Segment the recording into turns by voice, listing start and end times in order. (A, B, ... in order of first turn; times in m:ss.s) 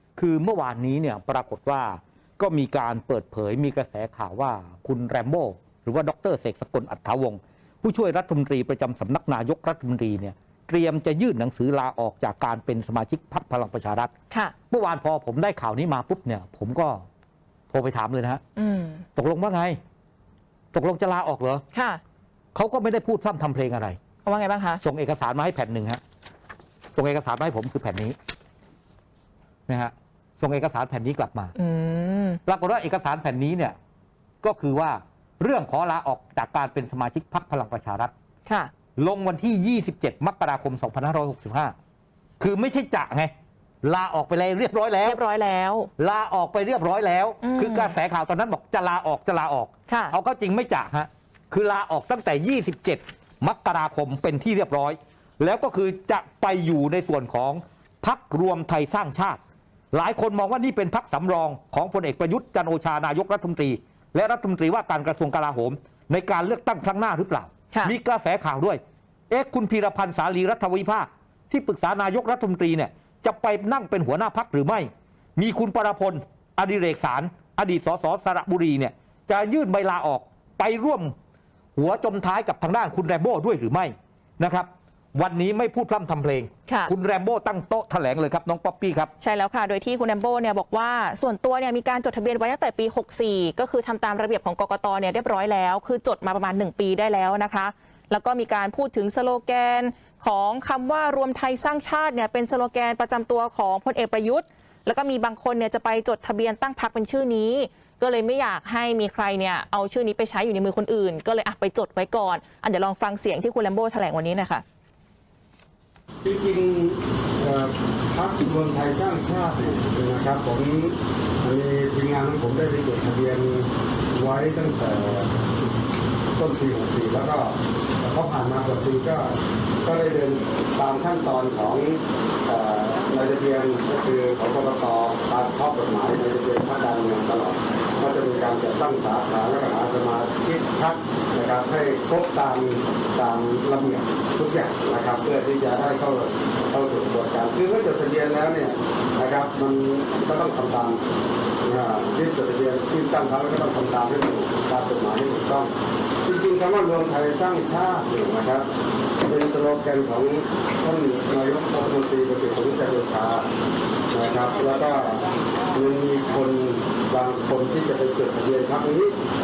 0:00.2-0:14.1 A
0:14.7-0:17.0 A
0:17.7-0:18.4 A
0:18.6-0:19.0 B
0:19.2-0:19.8 A
0:20.7-0:21.6 A
0:21.7-0:22.0 B
0:22.5-0:24.0 A
0:24.2-0:24.8 B
0:24.8-0:26.0 A
0:27.0-0:28.2 A
0:29.7-0:31.5 A
0:31.6-0:32.4 B
0:32.4-0:33.8 A
0:34.4-0:38.1 A
0:38.4-0:38.7 B
0:39.0-0:41.7 A
0:42.4-0:43.3 A
0:43.8-0:45.2 A
0:45.0-0:45.9 B
0:46.0-0:59.4 A
0:47.4-0:47.9 B
0:49.9-0:50.1 B
0:59.9-1:21.1 A
1:21.8-1:29.1 A
1:29.2-1:54.6 B
1:56.2-2:05.3 C
2:06.4-2:09.3 C
2:09.8-2:31.0 C
2:31.6-2:35.7 C
2:36.2-2:38.7 C
2:39.2-2:43.4 C
2:44.1-2:49.1 C